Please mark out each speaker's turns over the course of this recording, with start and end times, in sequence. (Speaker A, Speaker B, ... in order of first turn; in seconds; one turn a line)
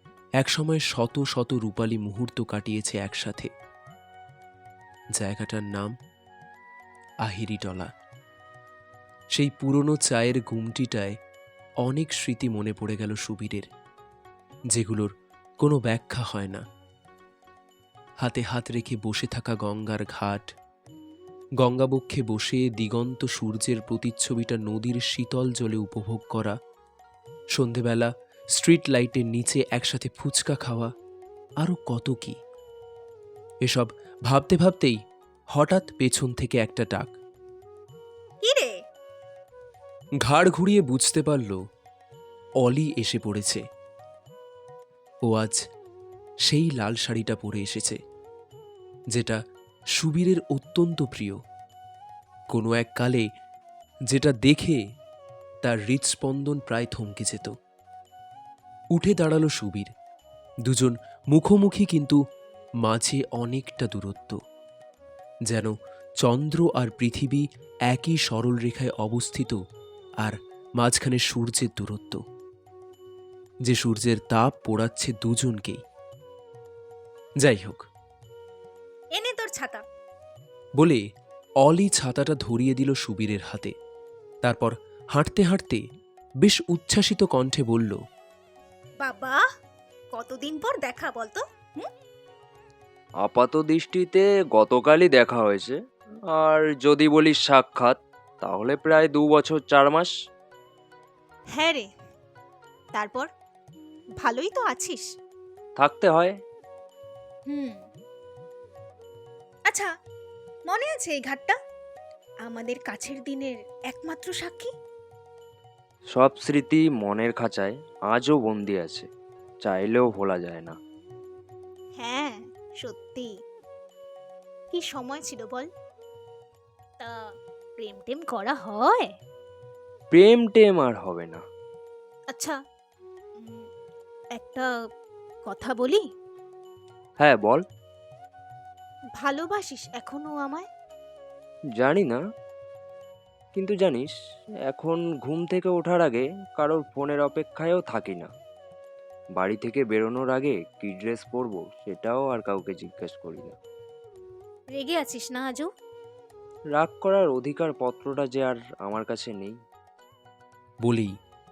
Speaker A: 0.4-3.5
Speaker A: 5.1-5.9
Speaker A: 7.2-7.9
Speaker A: 9.3-11.2
Speaker A: 11.8-13.7
Speaker A: 14.7-16.6
Speaker A: 18.2-20.5
Speaker A: 21.6-26.5
Speaker A: 27.5-30.9
Speaker A: 31.6-32.4
Speaker A: 33.6-35.0
Speaker A: 35.5-37.1
Speaker A: 40.2-41.6
Speaker A: 42.6-43.6
Speaker A: 45.2-45.6
Speaker A: 46.5-48.0
Speaker A: 50.0-51.4
Speaker A: 52.5-53.2
Speaker A: 54.1-54.8
Speaker A: 55.6-57.5
Speaker A: 58.9-59.9
Speaker A: 60.6-62.2
Speaker A: 62.8-64.4
Speaker A: 66.2-69.6
Speaker A: 70.2-72.2
Speaker A: 73.7-75.8
Speaker A: 77.4-77.8
Speaker B: 79.2-79.8
Speaker A: 81.6-83.7
Speaker A: 84.4-85.8
Speaker A: 86.4-88.0
Speaker B: 89.0-89.4
Speaker B: 90.2-91.9
Speaker C: 93.2-95.8
Speaker C: 96.3-100.1
Speaker B: 101.5-101.8
Speaker B: 103.0-103.2
Speaker B: 104.2-105.0
Speaker C: 105.8-106.3
Speaker B: 107.5-107.8
Speaker B: 110.7-111.5
Speaker B: 112.5-114.7
Speaker C: 116.1-119.1
Speaker C: 119.6-120.7
Speaker B: 122.0-123.3
Speaker B: 124.8-125.6
Speaker B: 127.8-129.1
Speaker C: 130.1-131.4
Speaker B: 134.4-134.7
Speaker B: 135.5-136.0
Speaker C: 137.2-137.6
Speaker B: 139.2-140.6
Speaker C: 141.8-142.2
Speaker C: 143.5-144.1
Speaker C: 144.7-148.3
Speaker C: 149.3-153.5
Speaker B: 154.7-155.7
Speaker C: 156.7-159.5
Speaker A: 160.8-161.1